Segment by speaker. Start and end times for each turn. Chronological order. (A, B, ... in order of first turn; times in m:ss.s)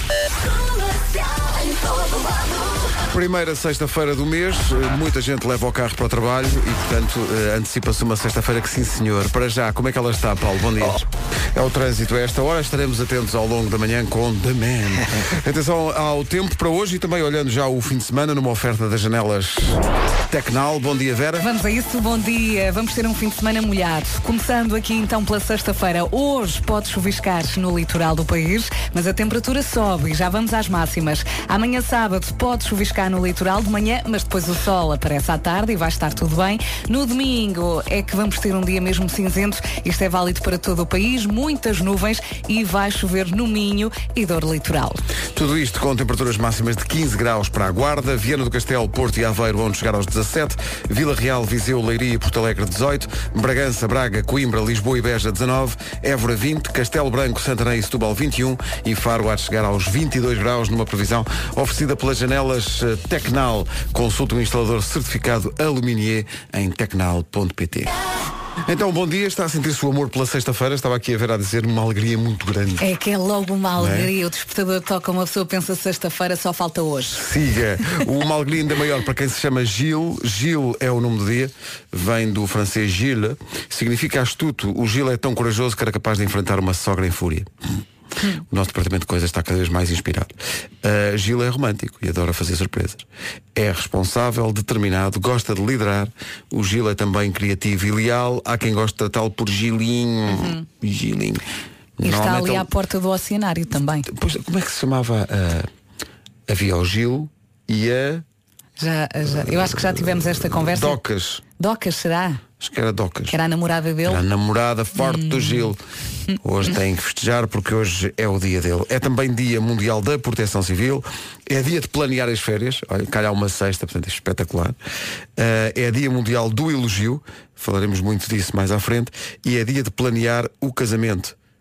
0:03.1-0:21.5 A
0:21.4-0:45.0 B
0:45.3-1:07.9 A
1:08.6-1:12.9 A
1:12.8-1:17.2 B
1:13.8-1:14.1 A
1:17.1-1:27.5 A
1:28.4-1:41.4 A
1:40.3-1:40.7 B
1:42.0-1:42.7 A
1:42.0-1:44.1 B
1:44.1-1:45.7 A
1:46.5-1:48.2 A
1:48.8-1:51.0 B
1:49.3-1:51.4 A
1:51.6-1:52.4 B
1:52.6-1:53.4 A
1:53.3-1:54.2 B
1:54.0-1:55.8 A
1:55.0-1:55.7 B
1:56.4-2:04.8 A
2:05.4-2:11.4 A